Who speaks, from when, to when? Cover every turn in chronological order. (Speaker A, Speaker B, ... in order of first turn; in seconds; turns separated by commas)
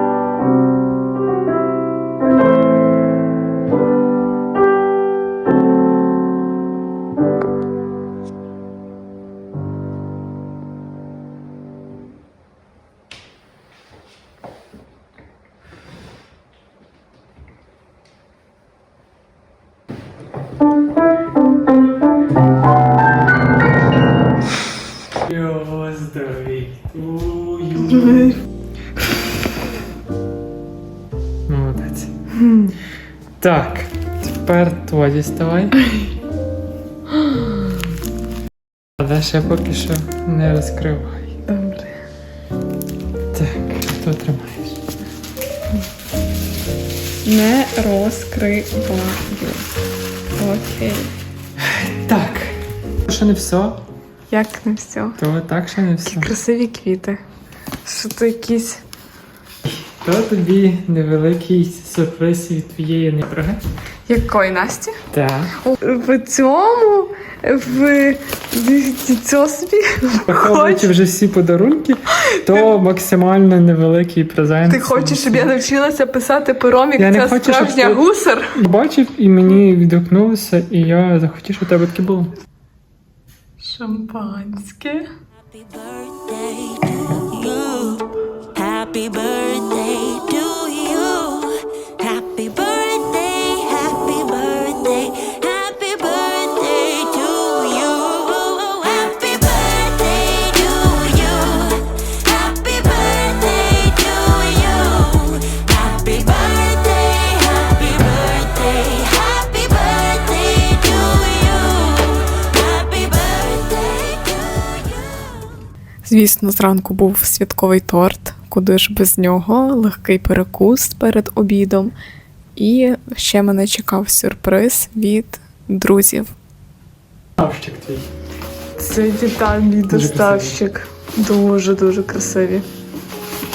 Speaker A: 25.2-28.4, Speaker A: 31.5-32.1, Speaker B: 32.4-32.7, Speaker A: 33.4-35.8, Speaker A: 39.0-41.4, Speaker B: 41.5-41.9, Speaker A: 43.3-44.8, Speaker B: 47.2-49.7, Speaker B: 50.4-51.1, Speaker A: 51.6-53.8, Speaker B: 54.3-55.2, Speaker A: 55.2-56.3, Speaker B: 56.0-57.2, Speaker B: 57.8-58.8, Speaker A: 59.6-63.6, Speaker B: 64.1-65.0, Speaker A: 65.1-65.6, Speaker B: 65.6-70.9, Speaker A: 70.3-75.5, Speaker B: 72.2-72.6, Speaker B: 74.7-78.6, Speaker A: 77.0-78.0, Speaker A: 78.6-82.3, Speaker B: 83.6-85.1, Speaker C: 85.5-115.3, Speaker B: 116.0-122.0, Speaker B: 122.6-126.3, Speaker A: 127.4-128.1, Speaker B: 128.8-132.7, Speaker A: 129.9-130.6